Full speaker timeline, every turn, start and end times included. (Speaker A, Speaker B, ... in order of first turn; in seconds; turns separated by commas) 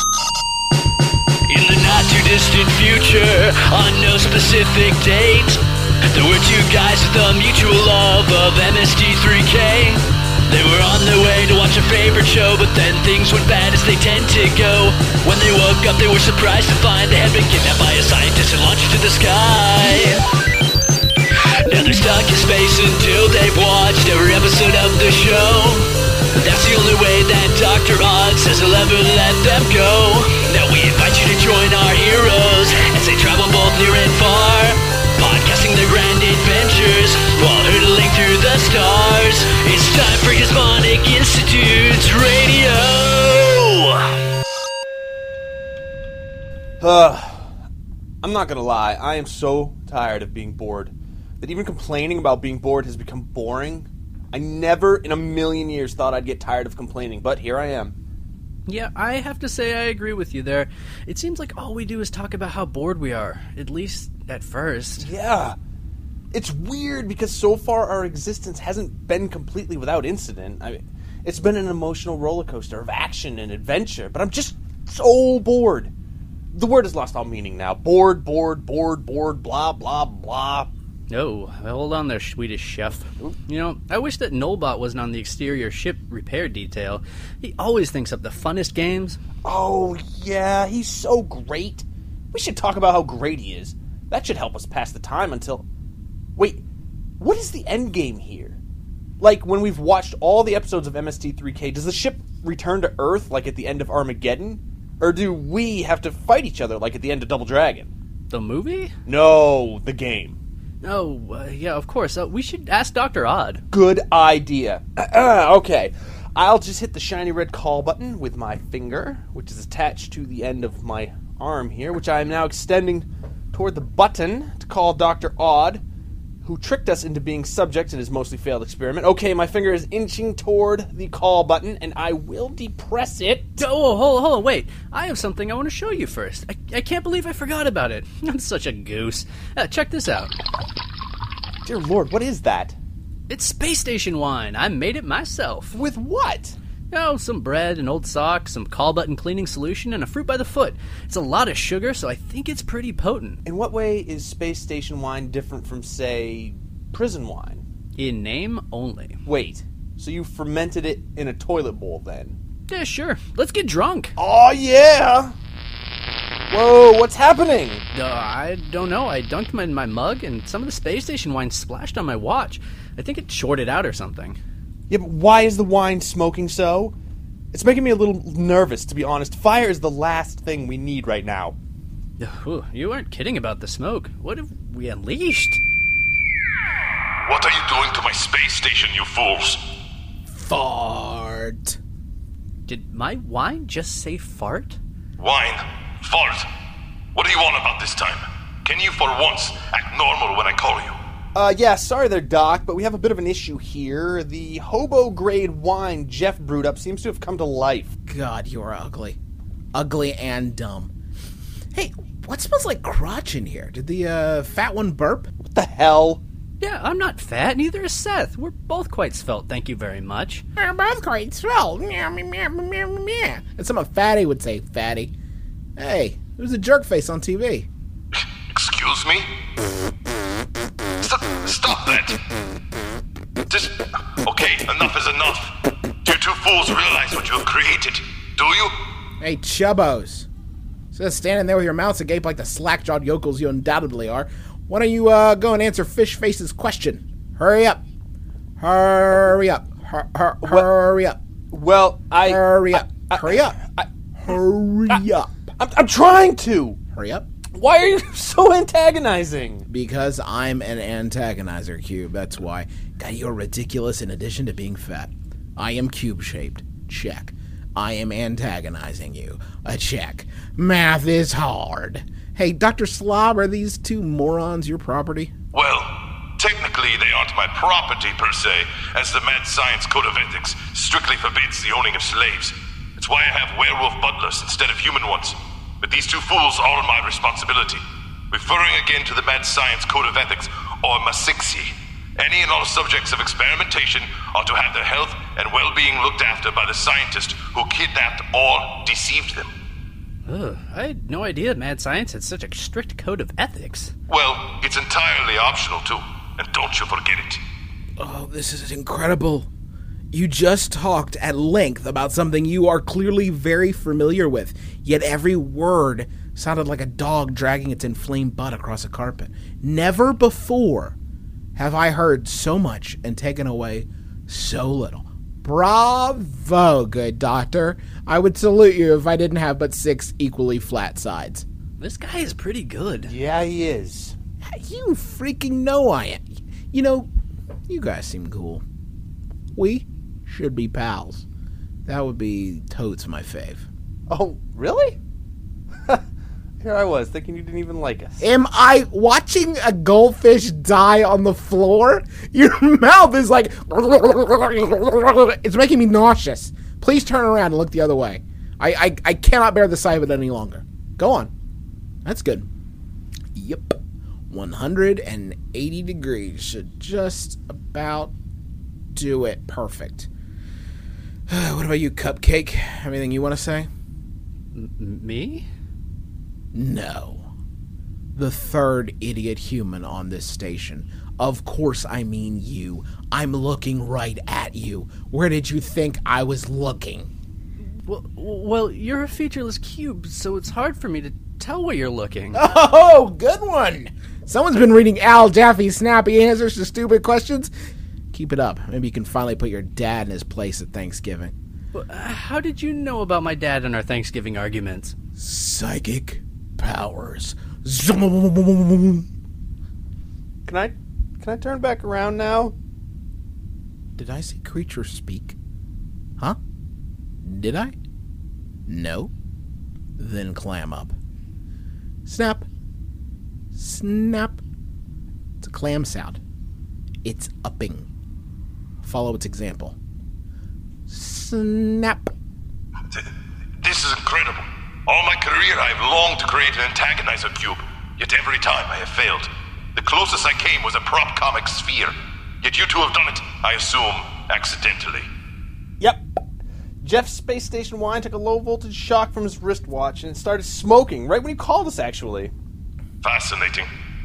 Speaker A: 1.5-5.5, Speaker B: 3.4-5.5, Speaker A: 6.1-13.6, Speaker B: 8.6-9.3, Speaker B: 10.8-12.7, Speaker B: 13.3-20.2, Speaker A: 14.3-18.4, Speaker A: 19.1-20.1, Speaker B: 21.7-25.7, Speaker A: 22.6-30.5, Speaker B: 26.4-34.5, Speaker A: 31.1-44.0, Speaker B: 35.9-37.2, Speaker B: 38.1-39.5, Speaker B: 40.5-42.8, Speaker C: 46.8-47.5, Speaker C: 48.2-57.9, Speaker B: 58.7-65.1, Speaker C: 65.0-65.5, Speaker C: 66.3-75.9, Speaker C: 76.5-80.7, Speaker B: 81.1-89.2, Speaker C: 89.4-95.6, Speaker C: 96.3-96.6, Speaker C: 97.2-98.6, Speaker C: 99.2-107.9, Speaker B: 108.3-108.9, Speaker C: 109.0-110.4, Speaker B: 110.8-113.6, Speaker C: 113.7-125.8, Speaker C: 126.4-133.7, Speaker B: 133.6-140.3, Speaker C: 141.6-142.8, Speaker B: 143.3-145.8, Speaker C: 145.7-146.6, Speaker B: 146.9-153.4, Speaker C: 153.4-157.6, Speaker B: 157.9-159.2, Speaker C: 159.2-162.4, Speaker B: 162.7-164.1, Speaker C: 164.2-165.3, Speaker C: 166.5-167.8, Speaker B: 167.9-174.4, Speaker C: 174.9-176.9, Speaker C: 177.5-181.6, Speaker B: 182.2-185.6, Speaker D: 187.2-189.6, Speaker E: 190.3-191.8, Speaker B: 192.7-194.8, Speaker D: 195.2-196.5, Speaker D: 197.1-201.0, Speaker C: 201.3-207.9, Speaker E: 208.1-209.2, Speaker E: 209.7-210.9, Speaker E: 211.7-215.3, Speaker C: 215.4-216.2, Speaker B: 216.6-220.4, Speaker E: 220.6-225.1, Speaker E: 225.8-227.7, Speaker D: 228.2-229.3, Speaker D: 231.0-232.2, Speaker D: 233.5-238.8, Speaker E: 239.2-240.3, Speaker E: 240.9-247.8, Speaker E: 248.6-251.2, Speaker C: 251.5-253.9, Speaker E: 252.2-253.6, Speaker E: 254.2-255.5, Speaker C: 255.6-256.8, Speaker E: 256.9-257.2, Speaker C: 257.5-259.6, Speaker E: 259.7-275.3, Speaker D: 275.5-299.5, Speaker B: 300.2-303.9, Speaker D: 304.1-307.4, Speaker E: 308.0-309.5, Speaker E: 310.1-320.9, Speaker E: 321.6-331.4, Speaker B: 331.8-333.1, Speaker C: 333.0-334.1, Speaker E: 334.4-337.1, Speaker E: 337.7-338.6, Speaker E: 339.5-341.2, Speaker E: 341.9-343.6, Speaker C: 344.1-345.0, Speaker C: 346.6-348.3, Speaker E: 348.2-361.3, Speaker E: 362.0-362.5, Speaker E: 363.3-363.8, Speaker E: 364.3-368.1, Speaker E: 368.9-370.1, Speaker E: 371.3-373.7, Speaker B: 374.5-375.4, Speaker E: 376.5-377.3, Speaker E: 378.1-387.1, Speaker B: 387.8-392.4, Speaker E: 392.3-397.5, Speaker E: 398.1-401.3, Speaker B: 401.7-404.9, Speaker E: 405.2-409.1, Speaker C: 410.4-412.5, Speaker E: 413.9-415.3, Speaker E: 417.2-417.7, Speaker E: 418.7-419.1, Speaker E: 420.0-420.9, Speaker E: 422.0-422.5, Speaker E: 423.5-424.4, Speaker E: 425.4-426.2, Speaker E: 427.0-427.9, Speaker E: 428.8-429.8, Speaker E: 430.9-432.1, Speaker D: 433.6-445.1, Speaker C: 445.8-446.0, Speaker C: 446.8-452.3, Speaker D: 453.0-453.7